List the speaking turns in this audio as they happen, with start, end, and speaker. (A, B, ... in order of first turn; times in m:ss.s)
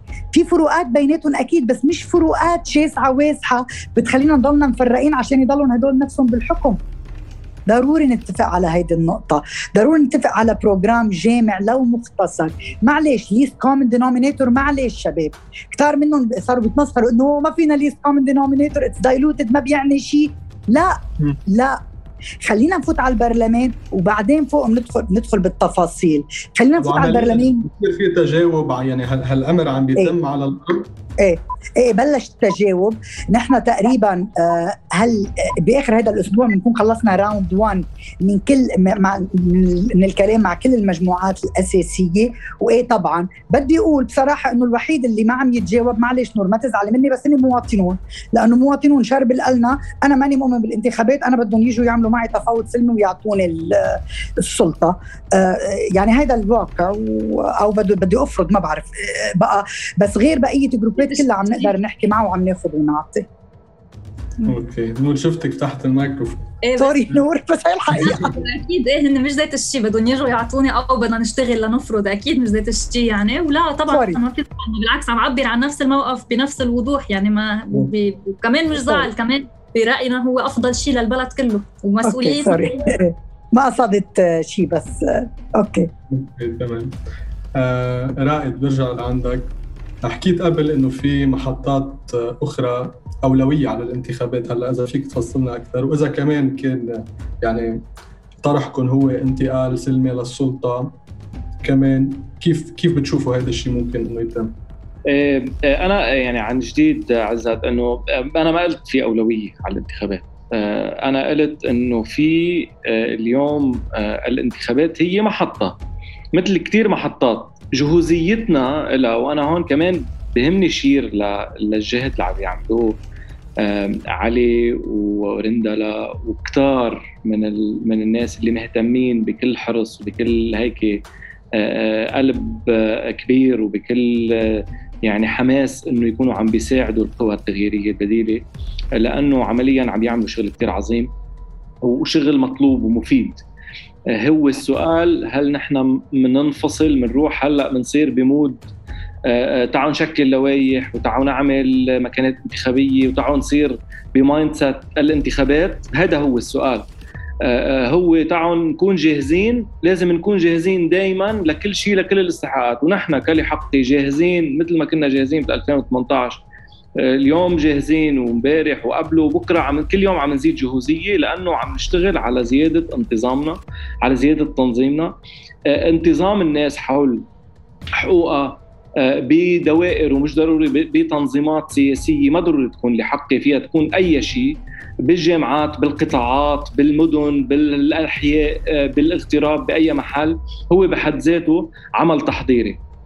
0:00.3-0:06.8 A
0:07.7-0:21.8 A
0:22.4-0:27.6 A
0:26.8-0:30.9 B
0:31.2-1:03.3 A
1:01.0-1:01.7 C
1:04.4-1:06.6 B
1:06.6-1:07.0 C
1:06.8-1:08.3 A
1:07.9-1:08.3 B
1:08.0-1:22.8 C
1:13.9-1:14.2 A
1:18.8-1:19.1 A
1:22.0-1:25.9 A
1:26.1-1:27.0 B
1:27.6-1:37.8 B
1:38.4-1:41.0 B
1:41.6-1:44.5 B
1:45.1-1:55.8 D
1:56.4-2:03.0 D
2:03.6-2:11.0 D
2:11.6-2:18.4 D
2:19.0-2:21.1 D
2:21.8-2:23.4 D
2:24.1-2:28.6 D
2:29.3-2:36.9 D
2:37.4-2:46.4 D
2:47.0-2:55.1 D
2:55.7-2:57.3 D
2:58.0-3:12.8 D